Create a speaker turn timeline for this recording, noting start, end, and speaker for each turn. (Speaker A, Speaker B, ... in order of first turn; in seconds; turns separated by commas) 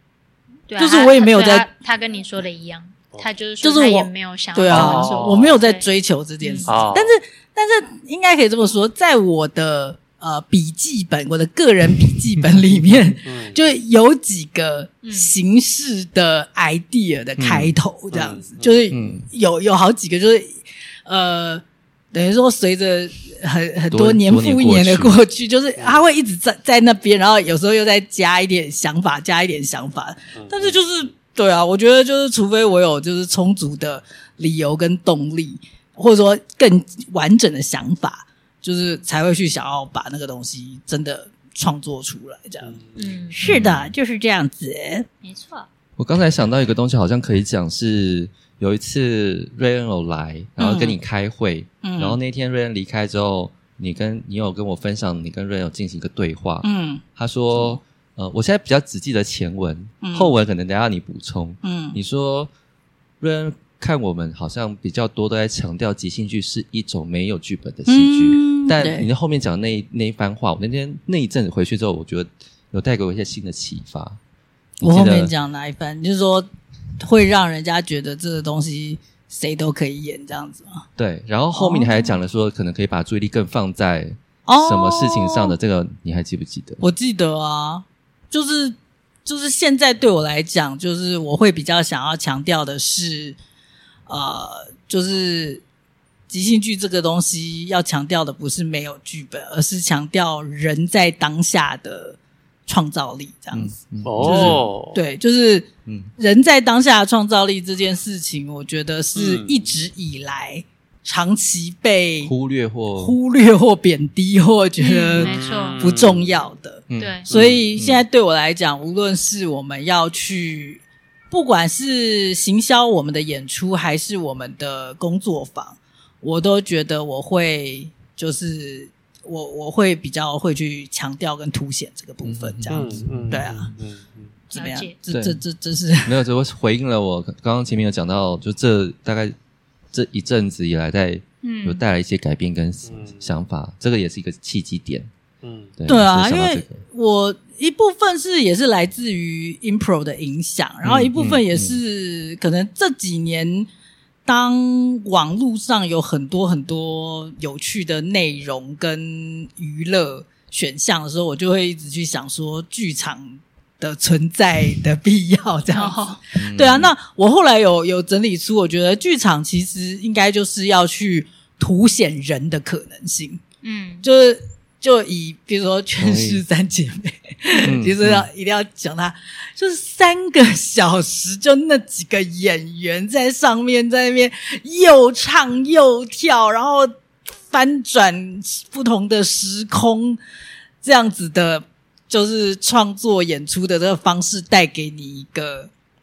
Speaker A: 0.7-5.8, Speaker B: 0.8-1.7, Speaker B: 3.6-42.8, Speaker C: 4.7-5.6, Speaker A: 6.4-6.8, Speaker C: 6.7-7.1, Speaker C: 13.3-13.6, Speaker A: 15.0-15.3, Speaker D: 17.4-17.7, Speaker C: 18.1-18.8, Speaker D: 18.9-19.3, Speaker D: 23.9-25.2, Speaker C: 25.8-26.0, Speaker C: 30.4-30.8, Speaker C: 42.6-43.2, Speaker A: 43.0-43.6, Speaker B: 43.3-45.1, Speaker D: 43.4-43.9, Speaker A: 45.2-45.7, Speaker D: 46.0-62.5, Speaker B: 50.6-51.0, Speaker B: 51.8-52.2, Speaker B: 56.6-57.0, Speaker B: 60.0-60.3, Speaker B: 61.6-62.0, Speaker D: 63.2-74.2, Speaker B: 67.9-69.1, Speaker B: 74.8-76.5, Speaker D: 74.8-75.3, Speaker B: 77.0-80.8, Speaker D: 81.0-86.8, Speaker B: 81.5-82.2, Speaker B: 84.5-85.5, Speaker B: 86.8-93.4, Speaker B: 94.1-95.6, Speaker B: 96.3-112.3, Speaker D: 103.5-104.6, Speaker C: 104.0-105.0, Speaker D: 105.9-106.1, Speaker C: 109.2-109.7, Speaker D: 112.2-113.2, Speaker B: 113.0-133.7, Speaker A: 114.8-115.9, Speaker C: 115.2-116.3, Speaker D: 116.9-118.0, Speaker A: 117.0-117.3, Speaker D: 132.2-133.4, Speaker C: 132.7-134.3, Speaker B: 134.5-136.2, Speaker A: 134.5-134.9, Speaker D: 135.1-135.4, Speaker D: 136.0-139.3, Speaker D: 139.9-145.1, Speaker A: 141.4-141.8, Speaker C: 142.9-143.3, Speaker C: 145.4-145.7, Speaker D: 145.8-146.8, Speaker B: 145.9-153.7, Speaker D: 150.8-151.8, Speaker B: 154.3-173.4, Speaker A: 165.7-166.2, Speaker D: 166.4-166.9, Speaker A: 173.6-174.1, Speaker B: 174.0-187.0, Speaker D: 176.0-176.4, Speaker D: 177.6-178.3, Speaker B: 187.5-190.2, Speaker B: 190.8-195.7